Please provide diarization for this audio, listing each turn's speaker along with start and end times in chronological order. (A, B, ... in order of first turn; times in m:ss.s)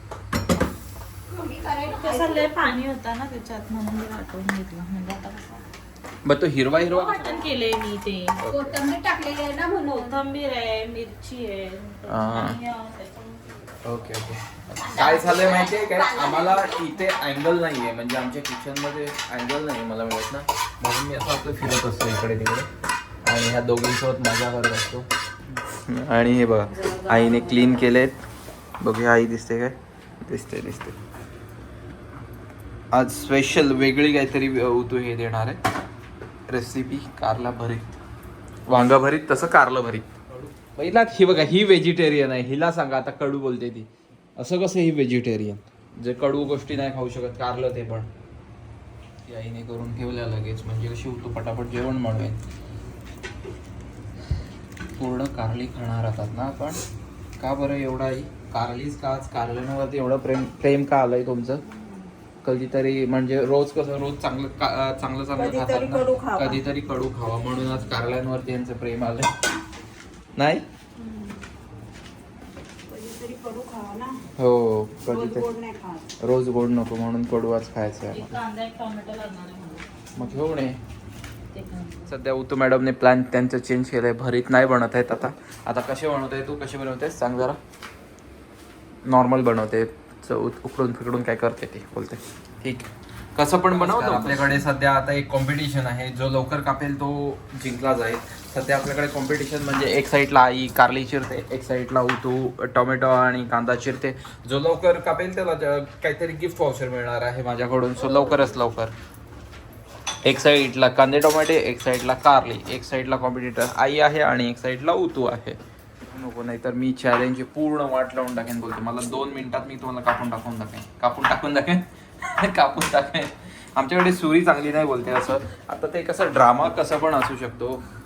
0:01.3-0:02.5 A
0:01.9-0:05.6 B
0:06.2-0:07.4 C
0:06.8-0:08.4 B
0:08.4-0:08.8 C
0:08.5-0:10.2 A
0:09.9-0:13.7 B
0:12.0-0:12.6 C
0:13.8-0:22.7 C
0:14.8-0:16.9 A
0:23.2-0:28.2 C
0:26.7-0:27.9 B
0:28.8-0:31.0 C
0:32.9-0:35.6 C
0:36.5-0:38.0 C
0:38.7-0:48.1 C
0:49.2-0:52.4 C
0:55.0-0:56.8 C
0:57.4-1:01.6 C
1:01.6-1:02.1 A
1:02.4-1:09.4 C
1:05.3-1:06.6 A
1:10.4-1:10.6 C
1:11.0-1:11.5 A
1:12.9-1:14.2 A
1:14.4-1:15.4 C
1:15.1-1:16.1 A
1:16.2-1:18.4 C
1:18.1-1:20.4 B
1:20.2-1:20.8 C
1:21.5-1:22.1 B
1:22.1-1:27.6 C
1:29.0-1:48.9 C
1:33.8-1:34.3 B
1:48.0-1:48.6 B
1:50.2-2:07.8 C